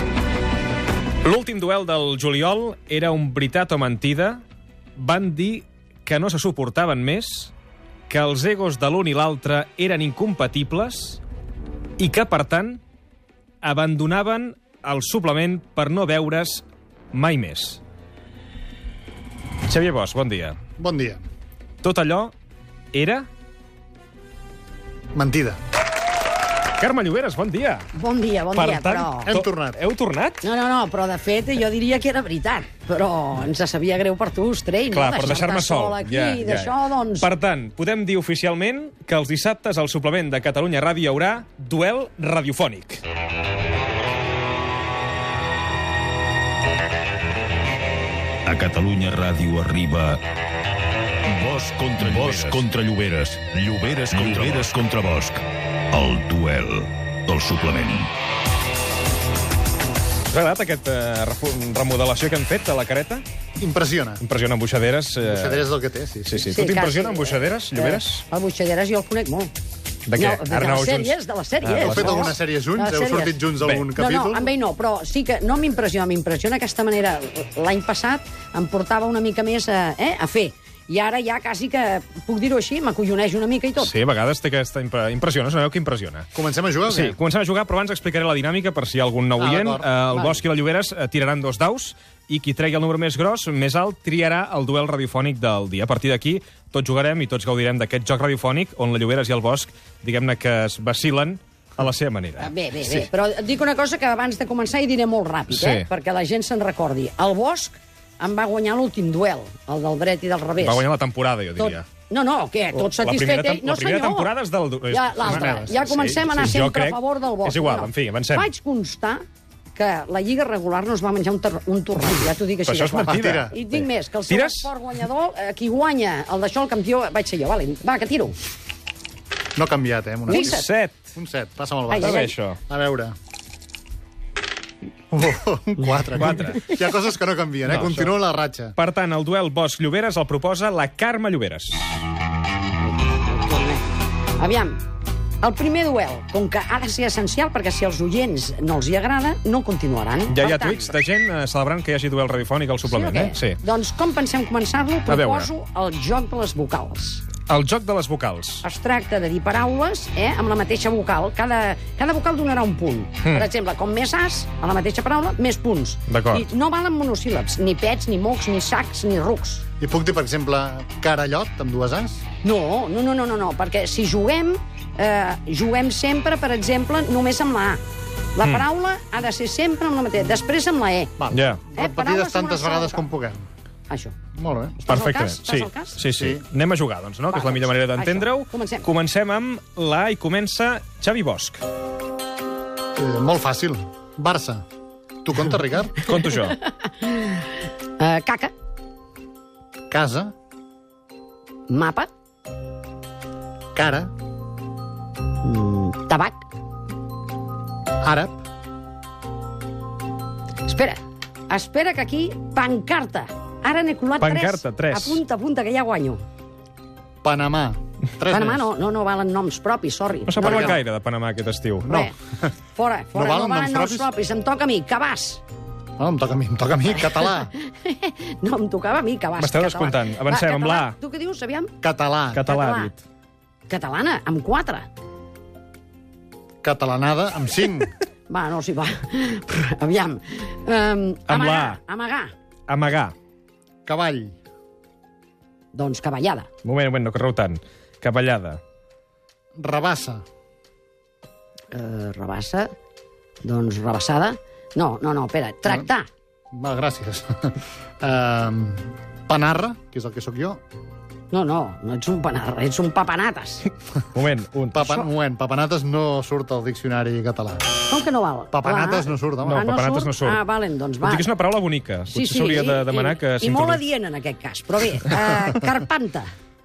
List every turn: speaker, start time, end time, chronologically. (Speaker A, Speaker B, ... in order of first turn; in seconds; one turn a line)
Speaker A: 1.2-4.4
Speaker A: 5.0-7.5
Speaker A: 8.1-11.2
Speaker A: 12.0-12.8
Speaker A: 13.6-17.8
Speaker A: 19.7-20.6
Speaker B: 20.8-21.2
Speaker A: 21.8-22.3
Speaker A: 22.9-23.3
Speaker B: 25.1-25.6
Speaker A: 26.8-27.9
Speaker C: 27.9-29.3
Speaker A: 28.6-30.4
Speaker B: 29.3-29.8
Speaker C: 30.4-37.3
Speaker A: 34.9-43.0
Speaker D: 48.5-50.2
Speaker D: 51.3-58.1
Speaker A: 60.3-63.2
Speaker B: 63.6-64.2
Speaker A: 64.2-65.7
Speaker B: 65.2-66.5
Speaker A: 66.2-68.2
Speaker C: 66.4-69.5
Speaker A: 70.1-72.4
Speaker C: 70.2-73.4
Speaker B: 71.8-74.5
Speaker A: 73.6-73.9
Speaker C: 74.0-83.9
Speaker A: 83.8-86.3
Speaker B: 86.3-87.2
Speaker A: 86.9-103.1
Speaker B: 89.4-89.9
Speaker C: 102.4-110.8
Speaker A: 105.5-105.9
Speaker A: 110.6-111.9
Speaker C: 111.6-114.3
Speaker A: 112.7-118.5
Speaker C: 114.9-119.2
Speaker B: 115.2-116.0
Speaker C: 119.7-128.4
Speaker A: 122.7-124.7
Speaker B: 123.1-123.6
Speaker B: 129.6-130.6
Speaker C: 130.3-130.7
Speaker A: 130.3-131.1
Speaker B: 131.2-133.2
Speaker C: 131.9-132.3
Speaker A: 132.0-132.6
Speaker B: 135.1-138.8
Speaker A: 136.1-136.8
Speaker A: 137.7-138.1
Speaker A: 138.8-142.1
Speaker C: 142.8-144.8
Speaker C: 145.4-151.0
Speaker A: 150.3-153.6
Speaker C: 152.8-157.3
Speaker A: 155.1-155.5
Speaker A: 157.5-158.6
Speaker C: 158.6-169.7
Speaker A: 166.1-166.5
Speaker B: 169.8-172.2
Speaker C: 172.4-177.8
Speaker C: 178.3-181.1
Speaker B: 181.2-183.5
Speaker A: 181.3-181.6
Speaker C: 181.8-183.1
Speaker C: 183.9-184.2
Speaker B: 184.3-184.8
Speaker C: 184.8-186.0
Speaker A: 184.9-191.6
Speaker B: 186.2-186.4
Speaker C: 187.3-188.9
Speaker B: 193.0-194.6
Speaker B: 195.2-196.0
Speaker A: 196.0-196.6
Speaker C: 196.4-198.5
Speaker B: 199.9-200.3
Speaker C: 201.7-202.1
Speaker B: 203.7-204.1
Speaker C: 205.4-206.4
Speaker B: 208.0-208.4
Speaker C: 210.7-216.2
Speaker A: 214.2-215.2
Speaker B: 217.2-218.7
Speaker C: 218.3-220.8
Speaker A: 220.3-222.0
Speaker C: 221.9-222.1
Speaker B: 221.9-222.5
Speaker C: 222.8-225.4
Speaker B: 223.1-224.1
Speaker B: 226.0-227.5
Speaker C: 227.0-231.7
Speaker A: 229.4-231.0
Speaker B: 231.8-232.4
Speaker A: 232.3-233.0
Speaker C: 232.5-232.9
Speaker C: 233.7-234.9
Speaker B: 236.6-237.9
Speaker C: 238.3-242.3
Speaker A: 241.3-241.8
Speaker A: 242.7-243.1
Speaker B: 243.9-244.3
Speaker C: 245.7-246.5
Speaker A: 246.6-248.6
Speaker B: 249.6-250.2
Speaker C: 251.7-252.7
Speaker C: 253.4-256.1
Speaker B: 256.5-260.6
Speaker C: 261.3-263.7
Speaker A: 264.1-264.9
Speaker B: 264.7-267.7
Speaker C: 264.8-265.0
Speaker C: 267.9-271.3
Speaker B: 268.5-269.7
Speaker A: 269.4-270.4
Speaker A: 271.0-273.8
Speaker C: 272.1-276.3